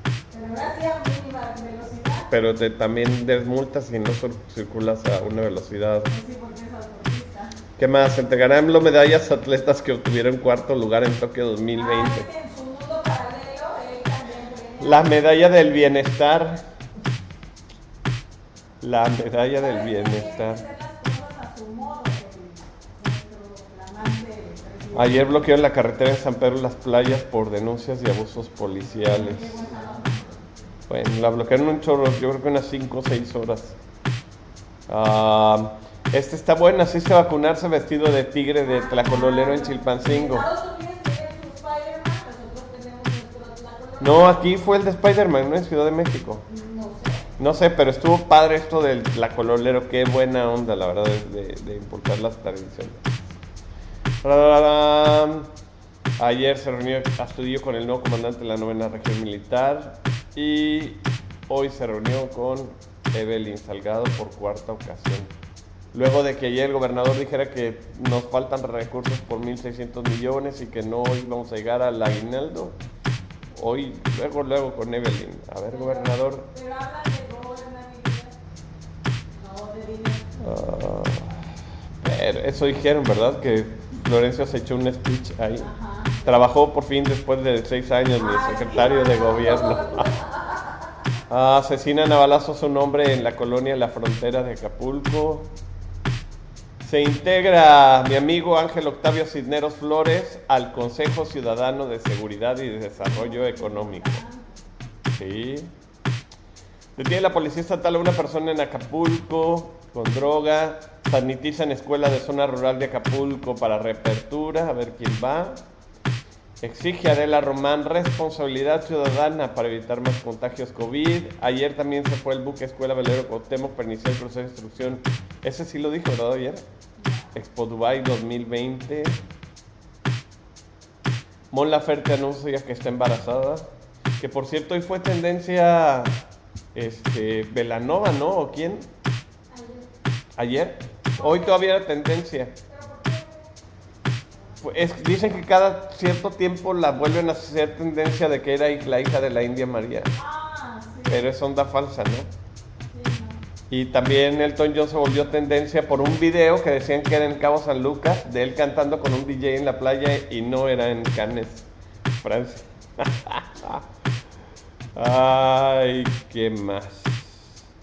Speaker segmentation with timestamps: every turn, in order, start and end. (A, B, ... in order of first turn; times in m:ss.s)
0:00.3-0:02.3 A
0:02.3-0:06.1 B
0:06.1-0:07.5 A
0:07.8-0:12.3 B
0:11.7-0:15.2 A
0:14.8-0:16.6 B
0:18.8-0:20.6 B
0:19.6-0:25.3 A
0:24.9-0:29.6 B
0:29.0-0:30.3 A
0:30.9-0:33.8 B
0:34.9-0:40.5 B
0:38.6-0:44.4 A
0:44.0-0:46.4 B
0:46.5-0:47.2 A
0:47.4-0:53.0 B
0:54.2-0:55.5 B
0:56.2-1:05.3 B
1:05.9-1:12.8 B
1:13.5-1:16.5 B
1:15.7-1:18.4 A
1:19.3-1:20.2 A
1:20.4-1:21.4 B
1:22.0-1:25.7 B
1:25.6-1:26.4 A
1:26.2-1:30.2 B
1:28.2-1:30.8 A
1:31.3-1:35.5 B
1:36.8-1:44.2 B
1:43.0-1:44.6 A
1:45.1-1:45.7 B
1:47.0-1:55.6 B
1:56.6-2:06.6 B
2:07.0-2:07.3 A
2:07.3-2:09.2 B
2:11.5-2:13.7 B
2:14.2-2:16.2 B
2:16.7-2:18.9 B
2:19.5-2:19.9 A
2:20.4-2:22.5 B
2:21.2-2:21.6 A
2:22.7-2:23.5 A
2:24.6-2:30.1 B
2:30.1-2:31.3 A
2:31.1-2:32.3 B
2:32.9-2:33.4 A
2:33.7-2:41.6 B
2:42.2-2:43.8 B
2:45.0-2:47.6 B